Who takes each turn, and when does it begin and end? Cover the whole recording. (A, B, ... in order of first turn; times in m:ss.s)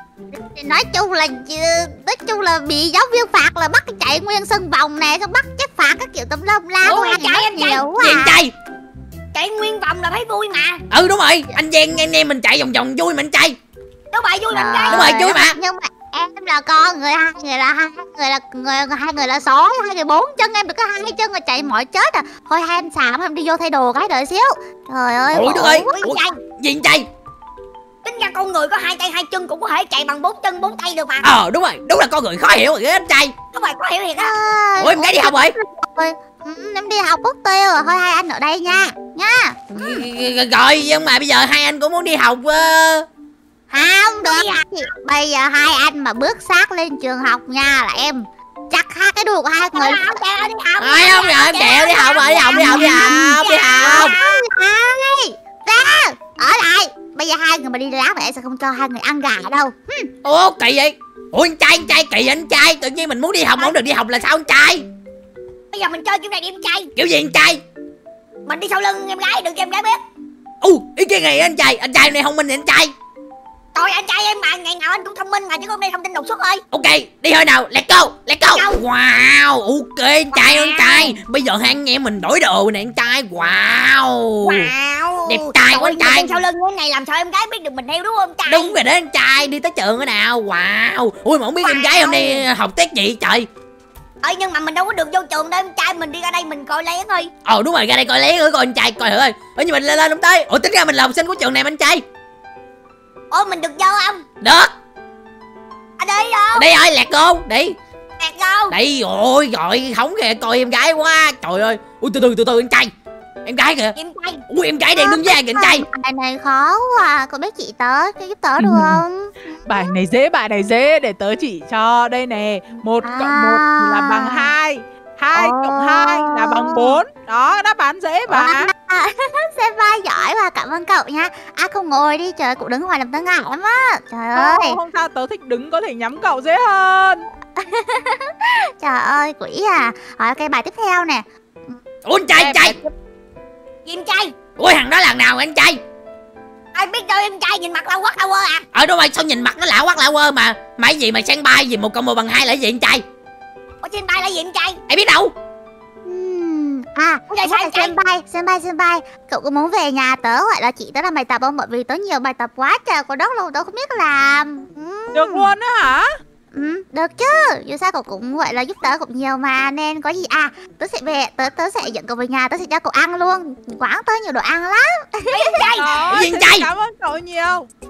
0:00.3-0:08.4 A
0:06.8-0:07.8 B
0:08.0-0:08.5 C
0:09.3-0:10.8 B
0:10.9-0:13.6 C
0:14.1-0:15.1 B
0:14.5-0:25.9 A
0:14.9-0:15.6 C
0:25.3-0:27.1 C
0:25.9-0:26.4 B
0:28.0-0:31.2 B
0:31.2-0:33.3 C
0:33.5-0:34.3 B
0:34.2-0:40.0 A
0:34.8-0:35.5 C
0:39.7-0:43.1 C
0:43.7-0:50.2 A
0:44.2-0:44.9 B
0:49.7-0:54.4 B
0:50.8-0:54.1 C
0:52.5-1:00.1 A
1:00.2-1:04.8 C
1:05.7-1:06.9 B
1:07.0-1:07.6 C
1:08.4-1:10.0 B
1:10.6-1:12.9 C
1:13.7-1:16.6 B
1:16.7-1:24.7 C
1:18.5-1:18.8 B
1:20.3-1:21.2 B
1:24.4-1:28.7 B
1:25.3-1:26.3 C
1:28.5-1:33.5 C
1:31.6-1:32.4 B
1:34.2-1:37.3 B
1:37.4-1:42.0 C
1:43.3-1:44.2 B
1:44.4-1:44.7 C
1:46.0-1:46.7 B
1:46.5-1:47.8 C
1:48.2-1:48.7 B
1:48.7-1:52.9 C
1:53.4-1:53.9 C
1:54.0-1:54.4 B
1:54.5-1:55.8 C
1:55.0-1:59.8 A
1:58.6-1:59.0 D
1:59.6-2:08.7 D
2:03.0-2:04.5 A
2:05.3-2:07.0 A
2:08.3-2:14.8 A
2:14.3-2:17.2 D
2:17.6-2:21.8 A
2:22.0-2:22.8 C
2:22.4-2:22.9 D
2:23.8-2:24.3 B
2:24.6-2:25.8 C
2:26.7-2:28.6 B
2:28.7-2:33.0 C
2:33.8-2:34.8 B
2:34.9-2:35.3 C
2:36.0-2:45.5 A
2:37.3-2:37.9 B
2:45.1-2:46.1 D
2:46.5-2:55.6 A
2:55.3-2:56.0 B
2:55.8-2:57.7 D
2:56.1-2:56.7 C